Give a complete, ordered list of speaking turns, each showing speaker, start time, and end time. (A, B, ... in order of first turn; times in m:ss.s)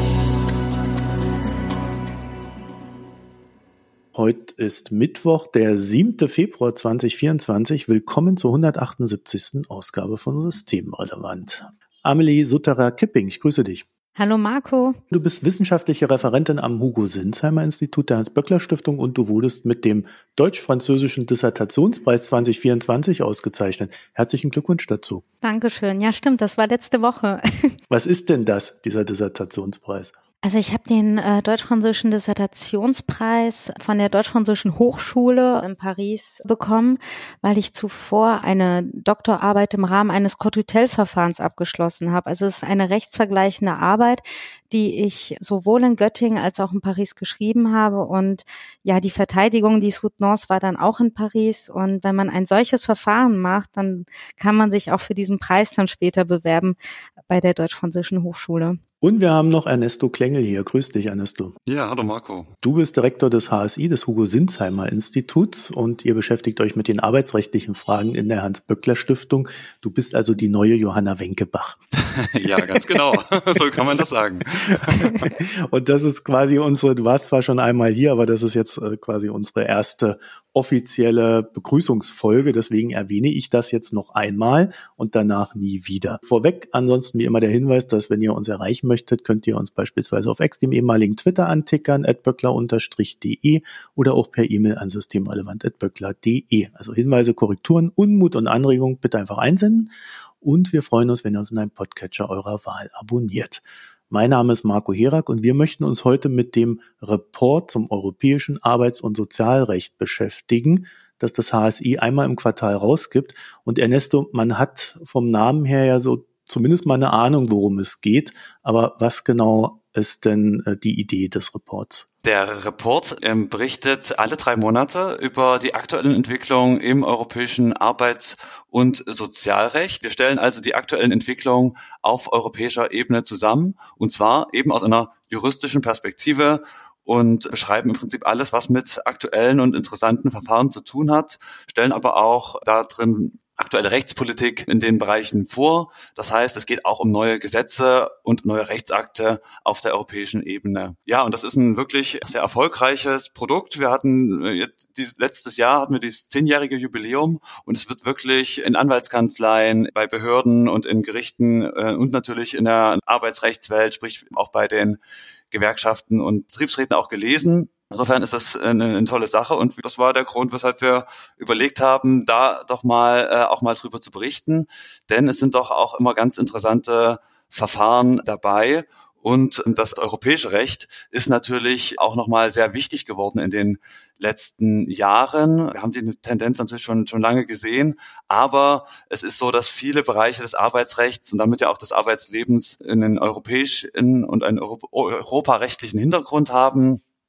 0:04.1-0:13.8 A
0:14.2-0:15.0 B
0:15.1-0:25.2 A
0:25.4-0:27.8 B
0:27.9-0:30.1 A
0:30.4-0:56.8 B
0:57.3-0:58.8 B
0:59.0-1:01.5 A
1:01.7-1:02.5 C
1:02.6-1:11.8 A
1:12.0-1:15.3 C
1:14.7-2:02.0 A
2:02.2-2:45.0 C
2:45.5-3:17.0 C